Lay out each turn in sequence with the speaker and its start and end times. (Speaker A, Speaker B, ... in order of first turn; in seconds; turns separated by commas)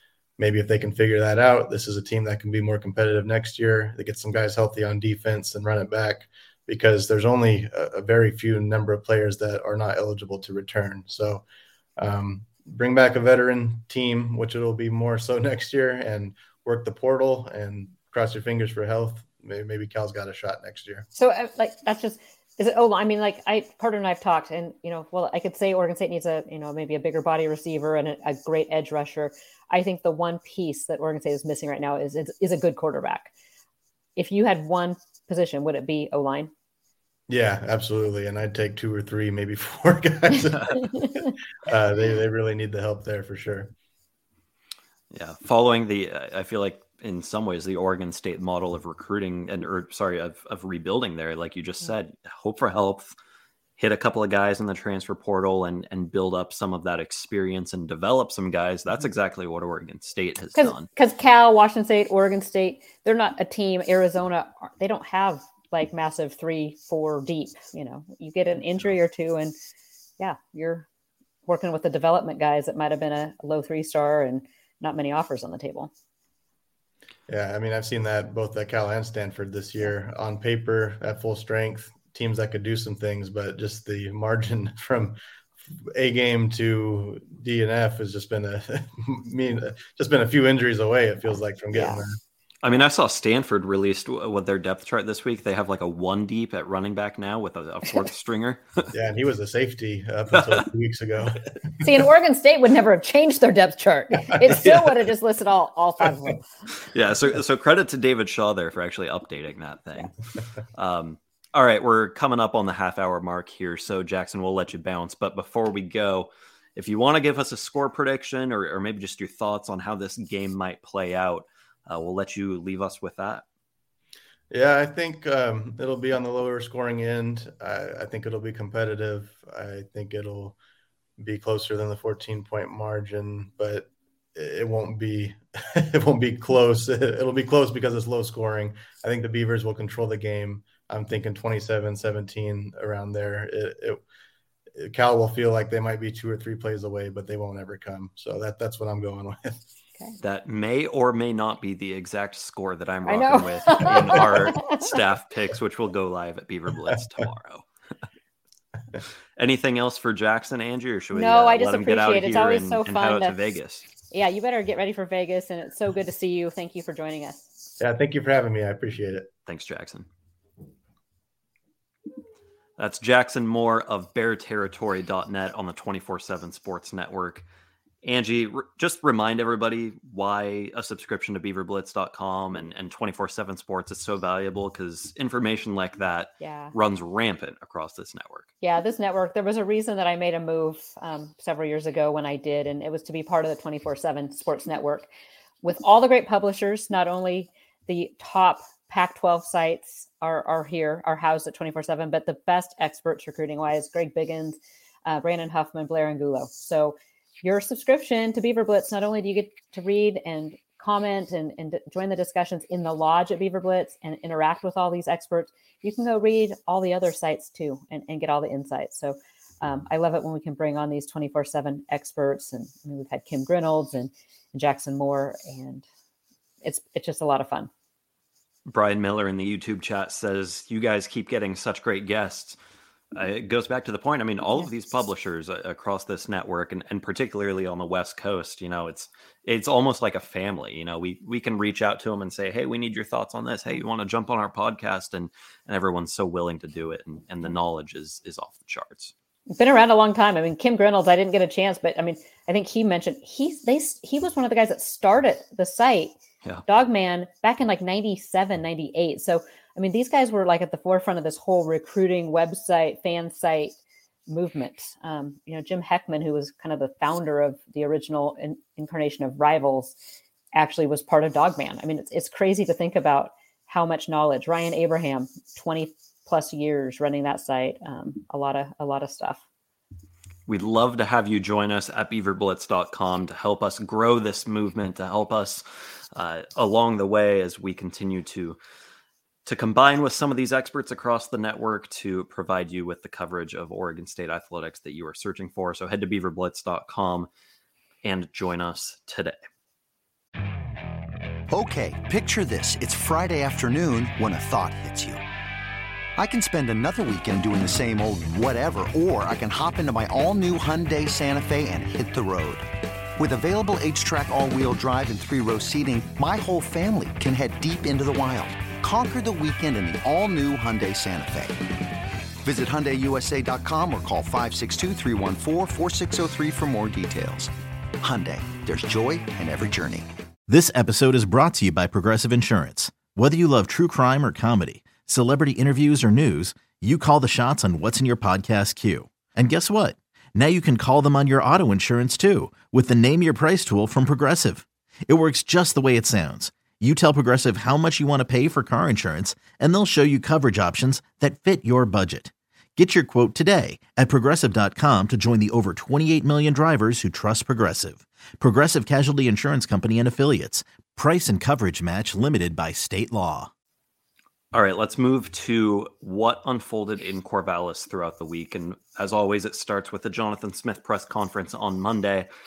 Speaker A: 0.4-11.4, Speaker A: 12.0-21.1, Speaker B: 21.1-33.3, Speaker B: 34.1-36.5, Speaker A: 37.3-40.9, Speaker B: 40.8-41.3, Speaker A: 41.6-43.7, Speaker C: 45.1-53.1, Speaker C: 53.8-60.9, Speaker B: 60.5-69.5, Speaker B: 70.2-70.9, Speaker B: 71.5-75.9, Speaker A: 77.3-92.2, Speaker B: 91.7-92.0, Speaker C: 92.6-98.9, Speaker A: 98.9-101.8, Speaker C: 100.3-100.6, Speaker B: 101.8-106.5, Speaker A: 104.3-104.7, Speaker C: 106.9-110.1, Speaker C: 110.7-123.4, Speaker A: 124.5-130.6, Speaker A: 131.2-144.0, Speaker A: 144.7-149.6, Speaker C: 150.2-157.6, Speaker B: 153.1-155.0, Speaker C: 159.4-163.8, Speaker B: 161.1-163.4, Speaker B: 164.1-167.4, Speaker A: 167.8-169.3, Speaker C: 169.4-170.1, Speaker C: 172.8-177.4, Speaker C: 178.0-188.5, Speaker B: 186.4-186.7, Speaker B: 188.6-195.1, Speaker B: 195.6-225.8, Speaker B: 226.6-227.7, Speaker C: 228.7-232.6, Speaker C: 233.1-249.1, Speaker B: 249.5-256.1, Speaker B: 256.7-263.7, Speaker B: 264.3-270.0, Speaker B: 270.5-279.4, Speaker C: 280.5-288.6, Speaker C: 289.4-297.3, Speaker C: 298.0-299.4, Speaker D: 301.5-305.2, Speaker D: 306.2-321.6, Speaker D: 322.4-330.1, Speaker E: 330.5-363.5, Speaker C: 364.5-372.3